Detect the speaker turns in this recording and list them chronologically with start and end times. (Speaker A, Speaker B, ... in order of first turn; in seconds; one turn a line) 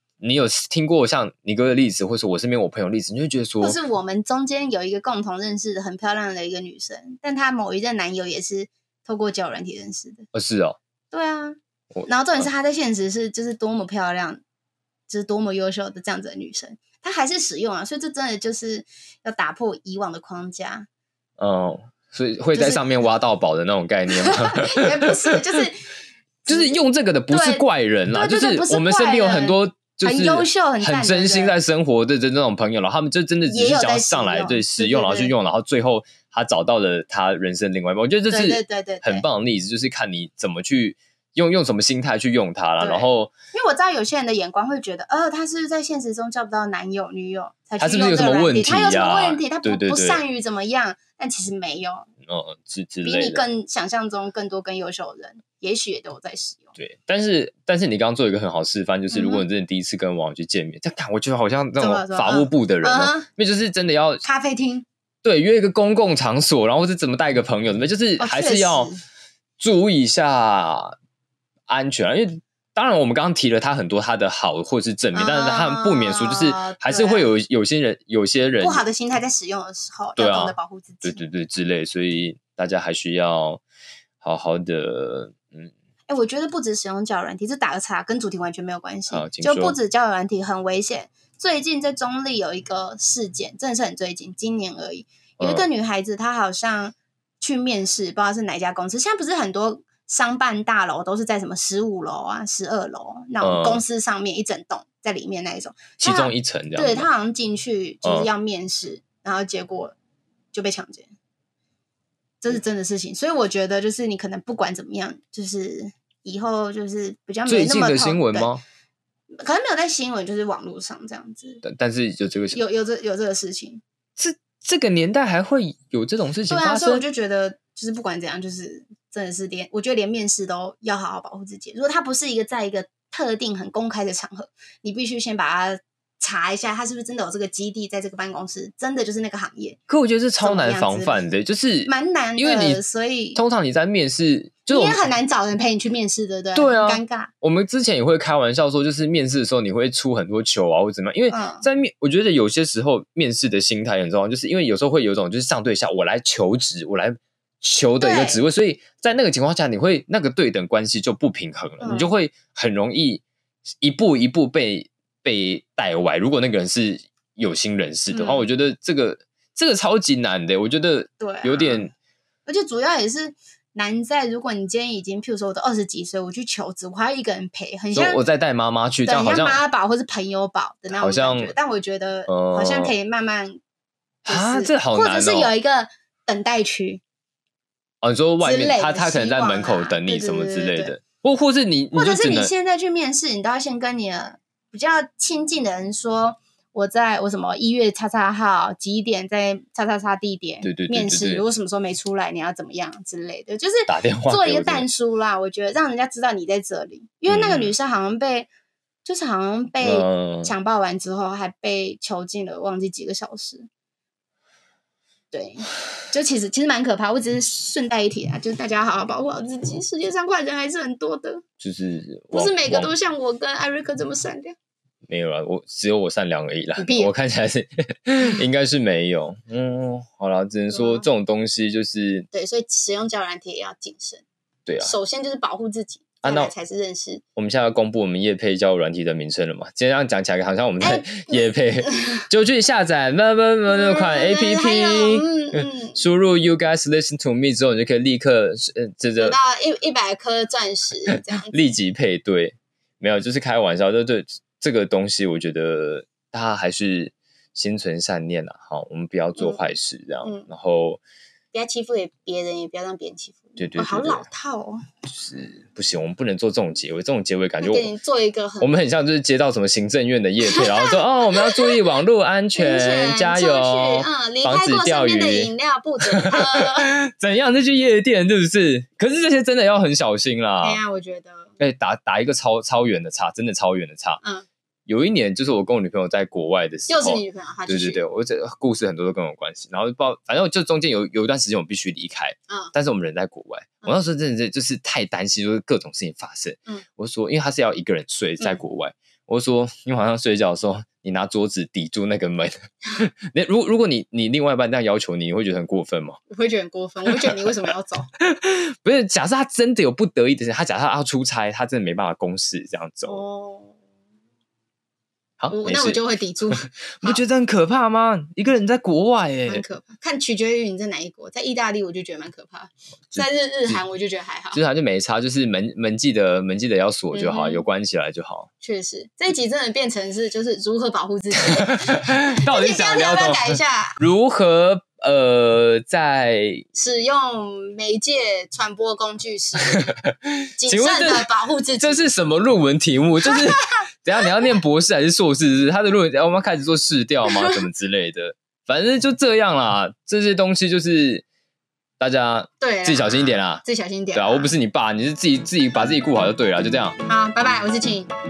Speaker A: 0.2-3.8
Speaker B: 3.6-10.2
Speaker A: 10.3-10.8
Speaker B: 11.1-14.4
Speaker A: 11.9-12.4
Speaker B: 15.1-20.9
Speaker A: 21.4-25.6
Speaker B: 22.5-23.1
Speaker B: 24.2-25.8
Speaker B: 26.4-26.8
Speaker A: 26.5-43.3
Speaker B: 27.3-31.5
Speaker B: 33.5-35.3
Speaker B: 38.3-39.2
Speaker B: 42.8-52.1
Speaker A: 47.8-50.2
Speaker A: 52.3-53.4
Speaker B: 53.0-56.7
Speaker A: 56.8-64.2
Speaker B: 59.1-59.5
Speaker B: 61.8-63.3
Speaker B: 64.2-64.8
Speaker A: 65.2-68.9
Speaker B: 68.2-69.0
Speaker A: 69.6-71.0
Speaker A: 71.7-78.8
Speaker B: 75.1-77.3
Speaker B: 78.6-81.2
Speaker A: 80.2-83.6
Speaker A: 84.2-85.7
Speaker B: 86.1-110.0
Speaker A: 89.1-89.8
Speaker A: 95.4-95.7
Speaker A: 103.4-103.8
Speaker A: 106.0-107.1
Speaker A: 108.0-108.3
Speaker B: 110.5-111.1
Speaker B: 112.4-118.5
Speaker A: 117.5-118.6
Speaker B: 119.3-121.6
Speaker A: 121.6-122.6
Speaker B: 122.5-123.8
Speaker A: 124.2-127.0
Speaker B: 126.5-139.8
Speaker A: 139.9-142.8
Speaker B: 140.4-141.2
Speaker B: 141.8-143.4
Speaker A: 143.3-145.0
Speaker B: 144.7-147.3
Speaker A: 146.5-163.2
Speaker B: 151.3-151.6
Speaker B: 158.0-158.4
Speaker B: 161.8-162.1
Speaker A: 163.8-171.9
Speaker B: 168.1-168.5
Speaker B: 171.2-171.8
Speaker B: 172.4-178.2
Speaker A: 177.9-179.6
Speaker B: 179.0-183.6
Speaker A: 180.9-181.5
Speaker A: 182.3-182.9
Speaker B: 184.2-187.0
Speaker A: 184.3-185.5
Speaker A: 188.0-192.5
Speaker B: 188.4-190.9
Speaker B: 191.9-208.5
Speaker A: 200.6-201.4
Speaker A: 203.9-204.9
Speaker A: 207.3-207.7
Speaker B: 209.0-213.7
Speaker A: 209.8-210.5
Speaker B: 215.3-221.4
Speaker A: 221.6-222.9
Speaker B: 222.3-224.6
Speaker A: 225.1-232.3
Speaker B: 226.8-227.1
Speaker B: 230.7-231.1
Speaker B: 232.3-234.2
Speaker A: 234.7-234.9
Speaker B: 234.8-237.2
Speaker A: 236.2-236.5
Speaker A: 237.3-249.4
Speaker B: 240.8-242.2
Speaker B: 243.7-246.0
Speaker B: 249.2-251.7
Speaker A: 251.1-261.0
Speaker B: 259.4-259.6
Speaker B: 260.2-260.5
Speaker B: 261.5-264.8
Speaker A: 263.6-264.2
Speaker A: 265.1-267.9
Speaker B: 267.6-268.7
Speaker A: 268.6-275.5
Speaker B: 270.4-271.8
Speaker B: 272.6-276.9
Speaker A: 276.1-280.8
Speaker B: 280.6-281.6
Speaker A: 281.6-284.2
Speaker B: 284.2-284.5
Speaker A: 284.9-306.2
Speaker B: 286.9-288.0
Speaker B: 292.5-292.7
Speaker B: 306.3-308.1
Speaker A: 307.1-307.5
Speaker A: 308.2-313.2
Speaker B: 313.1-313.8
Speaker A: 315.4-316.0
Speaker B: 315.5-317.2
Speaker A: 316.6-319.6
Speaker B: 319.5-324.6
Speaker A: 323.1-323.8
Speaker A: 324.5-328.5
Speaker B: 327.1-327.6
Speaker B: 328.6-334.0
Speaker A: 331.5-336.6
Speaker B: 336.7-339.9
Speaker A: 339.6-341.3
Speaker B: 340.6-342.1
Speaker A: 341.8-351.2
Speaker B: 343.2-343.5
Speaker A: 352.0-357.0
Speaker B: 352.6-354.5
Speaker B: 357.1-358.1